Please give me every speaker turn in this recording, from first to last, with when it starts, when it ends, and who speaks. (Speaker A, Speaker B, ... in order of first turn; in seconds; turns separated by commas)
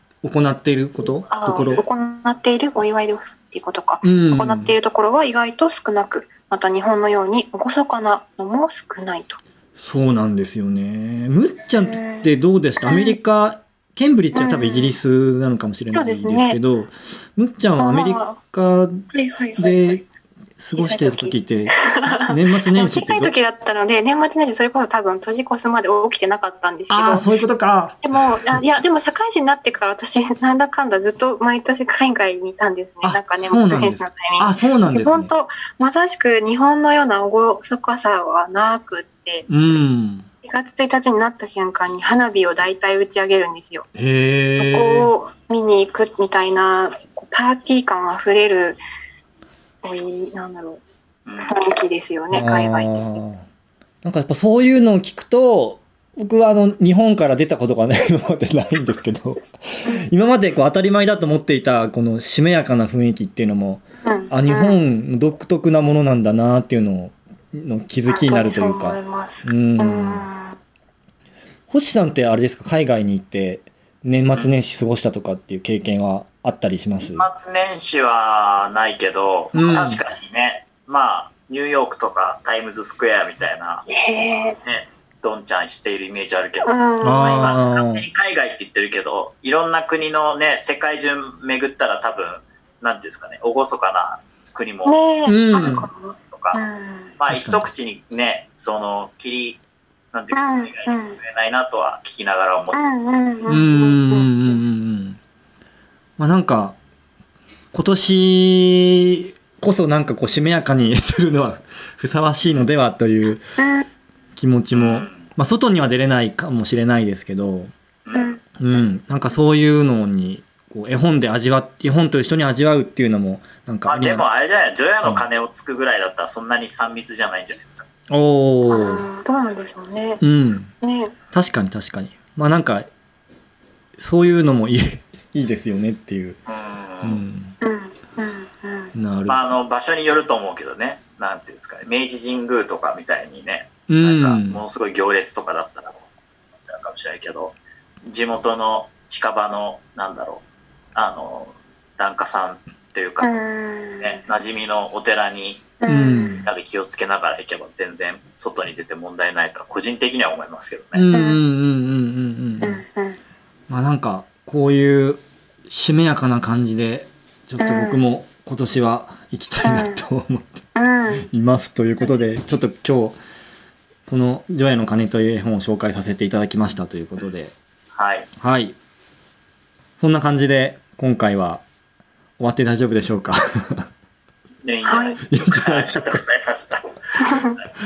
Speaker A: 0.2-1.9, Speaker B: 1.3-9.4, Speaker A: 4.0-4.8, Speaker A: 9.8-19.0, Speaker B: 11.7-12.3, Speaker B: 12.8-13.2, Speaker B: 14.3-15.0, Speaker B: 15.9-16.6, Speaker B: 17.8-18.4, Speaker B: 19.1-20.0, Speaker A: 19.6-20.0, Speaker A: 20.6-23.3, Speaker B: 20.8-21.4, Speaker B: 21.9-27.3, Speaker A: 26.9-28.6, Speaker B: 28.0-39.5, Speaker A: 33.0-35.3, Speaker A: 39.5-40.3, Speaker B: 40.4-43.9, Speaker A: 43.9-45.1, Speaker B: 44.6-48.8, Speaker B: 49.8-50.8, Speaker C: 51.2-51.6, Speaker B: 51.5-53.2, Speaker A: 52.3-53.4, Speaker A: 54.0-59.5, Speaker A: 60.0-70.3, Speaker B: 64.0-64.8, Speaker B: 68.1-70.6, Speaker A: 71.7-77.3, Speaker C: 77.0-83.9, Speaker A: 79.5-80.0, Speaker B: 83.9-84.6, Speaker C: 84.6-95.0, Speaker B: 86.6-87.5, Speaker A: 87.0-88.0, Speaker B: 94.8-97.1, Speaker A: 95.2-95.9, Speaker C: 95.6-96.6, Speaker C: 97.2-99.6, Speaker A: 97.3-97.7, Speaker C: 100.1-102.8, Speaker B: 100.3-101.2, Speaker B: 102.7-104.5, Speaker A: 103.5-105.2, Speaker A: 106.2-106.8, Speaker A: 107.7-113.4, Speaker B: 113.6-113.9, Speaker A: 114.3-117.7, Speaker C: 114.7-115.3, Speaker C: 118.0-118.4, Speaker B: 118.1-118.4, Speaker A: 118.6-124.2, Speaker C: 123.8-127.9, Speaker A: 128.1-129.1, Speaker B: 128.7-130.2, Speaker A: 130.2-130.7, Speaker B: 130.8-131.1, Speaker A: 131.3-132.9, Speaker A: 133.9-136.4, Speaker C: 136.5-137.2, Speaker A: 137.0-137.6, Speaker B: 137.6-138.9, Speaker A: 138.9-139.5, Speaker C: 139.2-146.0, Speaker A: 143.9-144.6, Speaker C: 146.6-150.4, Speaker C: 150.9-153.4, Speaker B: 153.2-154.2, Speaker C: 154.0-155.8, Speaker B: 155.8-156.4, Speaker A: 155.8-156.5, Speaker C: 156.4-161.1, Speaker A: 160.9-162.8, Speaker B: 161.1-161.4, Speaker B: 162.6-163.2, Speaker A: 163.7-170.6, Speaker B: 167.6-168.0, Speaker B: 169.6-170.0, Speaker B: 170.7-171.3, Speaker A: 171.2-173.2, Speaker A: 174.1-177.5, Speaker C: 177.9-178.3, Speaker A: 178.4-178.8, Speaker A: 180.0-181.6, Speaker A: 182.4-183.9, Speaker C: 184.6-187.6, Speaker B: 184.8-185.2, Speaker A: 185.3-186.2, Speaker B: 187.2-187.5